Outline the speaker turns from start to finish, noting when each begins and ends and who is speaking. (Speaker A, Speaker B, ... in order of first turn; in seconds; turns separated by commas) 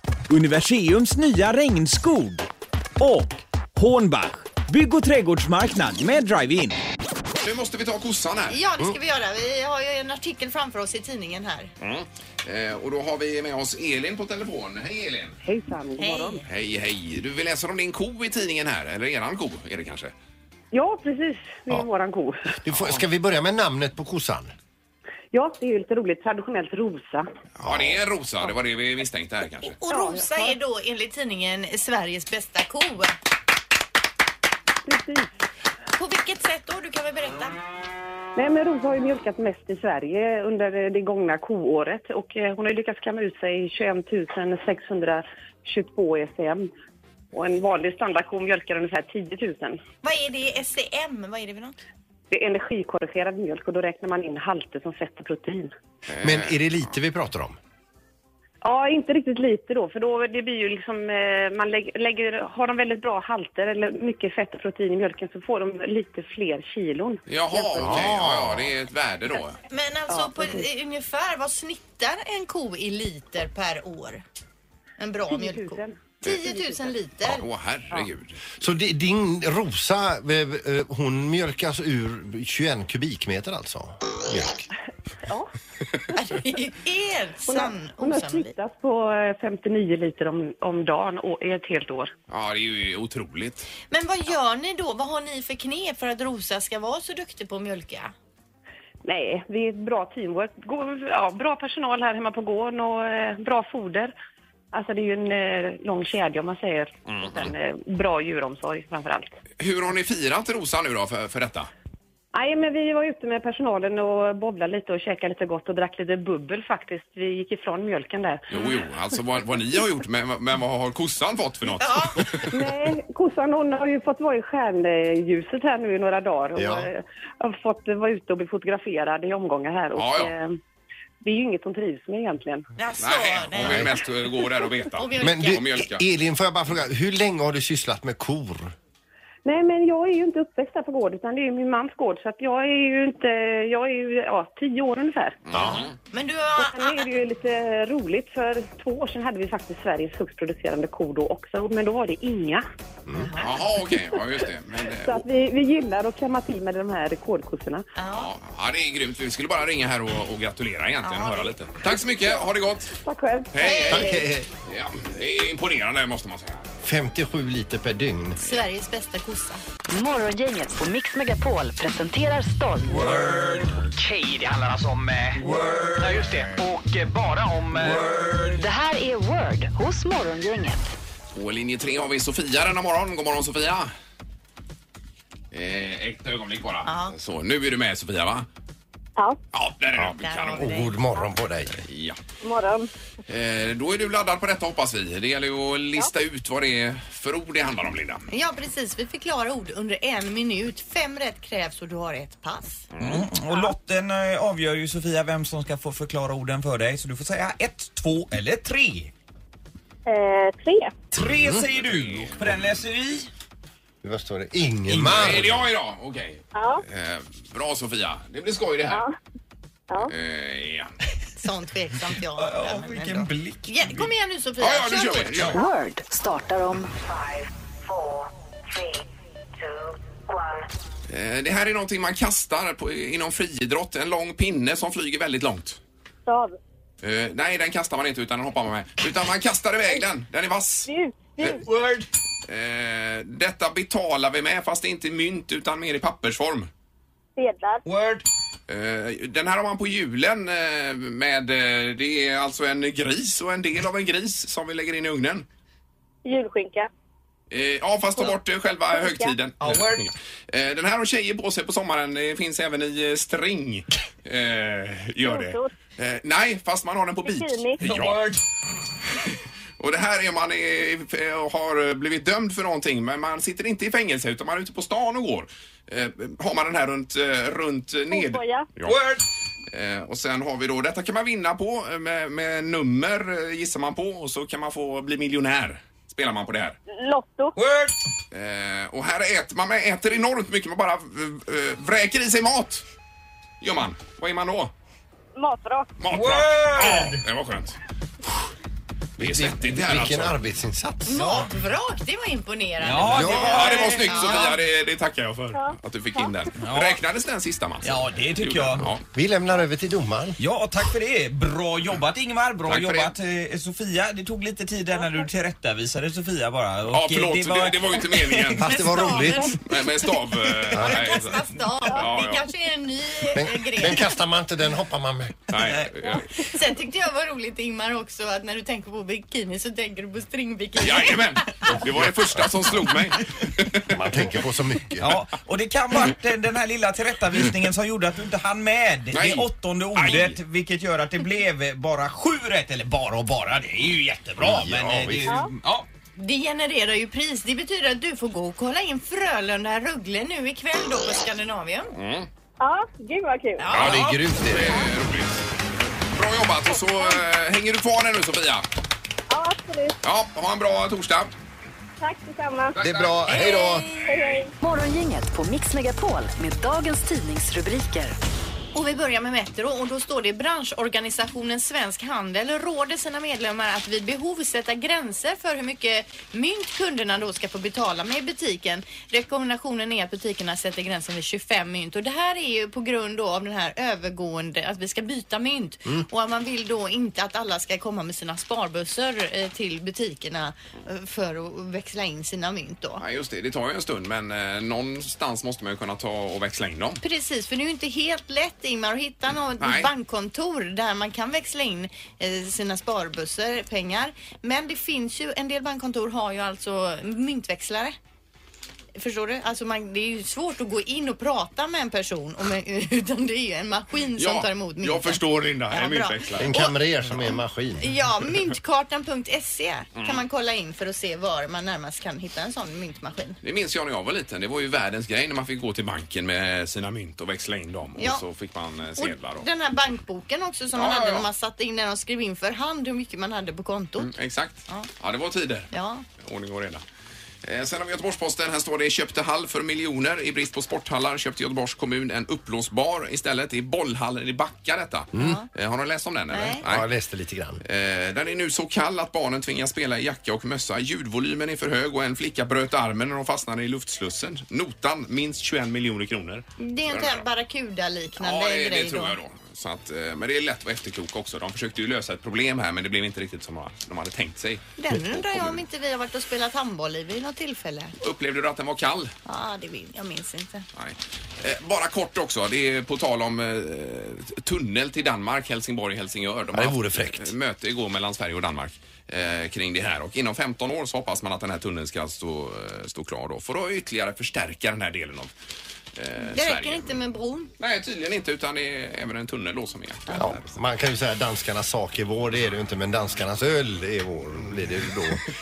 Speaker A: 0.3-2.5, Speaker A: 3.0-6.8, Speaker B: 7.4-8.6, Speaker C: 8.5-11.7, Speaker B: 11.8-15.4, Speaker D: 15.4-16.4, Speaker C: 16.0-16.4, Speaker B: 16.4-20.1, Speaker D: 20.7-22.6, Speaker E: 22.6-24.5, Speaker B: 22.7-23.0, Speaker D: 25.3-27.3, Speaker B: 27.6-29.8, Speaker E: 27.6-28.0, Speaker C: 29.8-33.2, Speaker D: 29.9-30.6, Speaker D: 34.8-35.3, Speaker C: 35.9-37.6, Speaker D: 38.3-46.7, Speaker D: 47.3-49.8, Speaker C: 50.0-51.8, Speaker D: 52.3-55.7, Speaker B: 56.1-56.6, Speaker E: 56.2-57.6, Speaker D: 58.6-68.1, Speaker B: 67.3-69.6, Speaker E: 67.8-68.7, Speaker C: 69.7-74.2, Speaker D: 70.1-70.7, Speaker C: 75.0-77.5, Speaker D: 75.3-76.7, Speaker B: 77.2-78.4, Speaker E: 78.6-84.7, Speaker D: 85.2-85.5, Speaker C: 86.2-88.5, Speaker D: 87.5-92.1, Speaker B: 92.3-93.7, Speaker C: 93.9-98.1, Speaker D: 99.0-104.1, Speaker D: 104.7-109.3, Speaker B: 107.1-107.5, Speaker B: 109.6-111.7, Speaker D: 112.3-118.8, Speaker B: 118.5-122.5, Speaker C: 121.7-122.4, Speaker D: 122.5-130.6, Speaker E: 126.6-126.9, Speaker B: 129.9-130.3, Speaker D: 131.2-132.7, Speaker C: 132.8-135.6, Speaker B: 133.0-136.0, Speaker E: 133.6-133.9, Speaker E: 135.2-138.7, Speaker D: 139.4-145.4, Speaker B: 145.5-145.9, Speaker C: 145.5-147.1, Speaker E: 145.5-145.8, Speaker D: 146.6-152.6, Speaker C: 153.2-153.6, Speaker B: 153.4-155.2, Speaker D: 155.0-157.8, Speaker C: 158.0-158.3, Speaker B: 158.1-162.9, Speaker C: 161.0-161.6, Speaker D: 163.0-164.2, Speaker B: 163.5-164.1, Speaker C: 163.6-164.3, Speaker E: 163.9-164.5, Speaker B: 164.7-166.7, Speaker E: 166.8-168.4, Speaker C: 168.4-169.6, Speaker F: 169.9-173.0, Speaker G: 173.0-173.3, Speaker A: 173.1-173.7, Speaker G: 173.9-178.3, Speaker A: 178.1-178.5, Speaker F: 178.6-180.8, Speaker B: 181.3-183.9, Speaker B: 185.5-188.5, Speaker C: 186.8-187.2, Speaker B: 189.5-190.7, Speaker E: 190.0-191.8, Speaker C: 190.2-191.0, Speaker B: 191.8-192.2, Speaker H: 192.4-192.9, Speaker B: 193.3-198.2, Speaker C: 198.3-202.8, Speaker B: 202.9-203.2, Speaker A: 203.0-209.1, Speaker H: 210.1-211.0, Speaker A: 211.1-213.3, Speaker B: 211.7-212.6, Speaker E: 214.0-215.7, Speaker B: 214.9-219.0, Speaker H: 216.5-216.8, Speaker H: 218.9-219.2, Speaker B: 220.1-220.9, Speaker C: 221.4-225.5, Speaker A: 222.4-224.1, Speaker B: 224.6-225.6, Speaker F: 225.5-227.4, Speaker B: 231.1-235.8, Speaker H: 236.2-236.6, Speaker B: 237.0-240.9, Speaker H: 240.8-241.6, Speaker A: 241.6-242.1, Speaker B: 242.5-246.7, Speaker H: 247.3-247.8, Speaker A: 247.8-248.2, Speaker B: 248.7-255.5, Speaker H: 256.2-256.9, Speaker B: 257.5-268.3, Speaker H: 258.9-259.3, Speaker A: 259.6-260.0, Speaker H: 265.2-265.7, Speaker H: 267.2-267.8, Speaker A: 267.8-268.4, Speaker B: 269.8-279.0, Speaker H: 278.1-278.7, Speaker A: 278.8-279.2, Speaker B: 279.7-286.8, Speaker H: 286.9-287.5, Speaker A: 287.5-287.9, Speaker B: 288.3-292.8, Speaker B: 293.6-294.7, Speaker H: 295.3-295.9, Speaker B: 296.0-297.7, Speaker A: 296.1-297.2, Speaker B: 299.2-300.4, Speaker E: 299.2-301.4, Speaker C: 301.1-304.6, Speaker A: 302.8-304.4, Speaker E: 303.1-303.7, Speaker B: 303.3-309.0, Speaker H: 305.5-306.3, Speaker A: 306.6-307.0, Speaker A: 307.8-308.9, Speaker E: 309.1-310.4, Speaker A: 310.4-318.6, Speaker B: 312.6-313.1, Speaker B: 316.9-318.8, Speaker C: 318.6-319.8, Speaker E: 318.6-319.6, Speaker B: 319.6-322.5, Speaker C: 320.5-324.1, Speaker E: 320.7-321.0, Speaker E: 323.3-325.5, Speaker B: 325.5-326.3, Speaker A: 325.6-326.1, Speaker C: 326.4-331.8, Speaker B: 330.8-334.0, Speaker E: 333.9-335.1, Speaker A: 335.0-345.8, Speaker B: 339.1-340.4, Speaker E: 344.4-345.4, Speaker C: 346.2-351.9, Speaker B: 351.9-352.3, Speaker H: 352.6-353.7, Speaker C: 353.6-354.1, Speaker E: 353.7-354.8, Speaker B: 353.7-355.4, Speaker B: 356.1-358.6, Speaker H: 359.3-359.9, Speaker B: 360.0-361.3, Speaker H: 362.0-362.8, Speaker B: 362.7-363.5, Speaker E: 362.8-364.0, Speaker C: 363.3-364.0, Speaker H: 364.0-364.5, Speaker F: 364.6-368.1, Speaker C: 368.7-393.0, Speaker B: 393.0-397.0, Speaker C: 397.0-407.9, Speaker B: 399.6-399.9, Speaker C: 408.9-416.7, Speaker B: 414.2-416.6, Speaker E: 416.4-417.9, Speaker C: 417.3-423.4, Speaker B: 419.9-420.2, Speaker B: 423.4-429.4, Speaker C: 428.0-428.2, Speaker C: 429.0-434.1, Speaker B: 430.7-431.3, Speaker B: 434.0-435.7, Speaker C: 435.7-436.0, Speaker B: 436.2-436.8, Speaker B: 437.4-446.9, Speaker E: 445.1-445.4, Speaker C: 445.1-445.5, Speaker C: 446.3-446.6, Speaker E: 446.6-447.6, Speaker B: 447.6-457.2, Speaker C: 456.6-459.1, Speaker B: 458.2-465.6, Speaker C: 464.8-467.9, Speaker B: 468.0-469.1, Speaker C: 469.2-470.7, Speaker B: 470.8-485.3, Speaker E: 476.5-477.3, Speaker B: 485.9-486.9, Speaker C: 486.2-487.5, Speaker B: 487.6-490.5, Speaker E: 490.1-495.3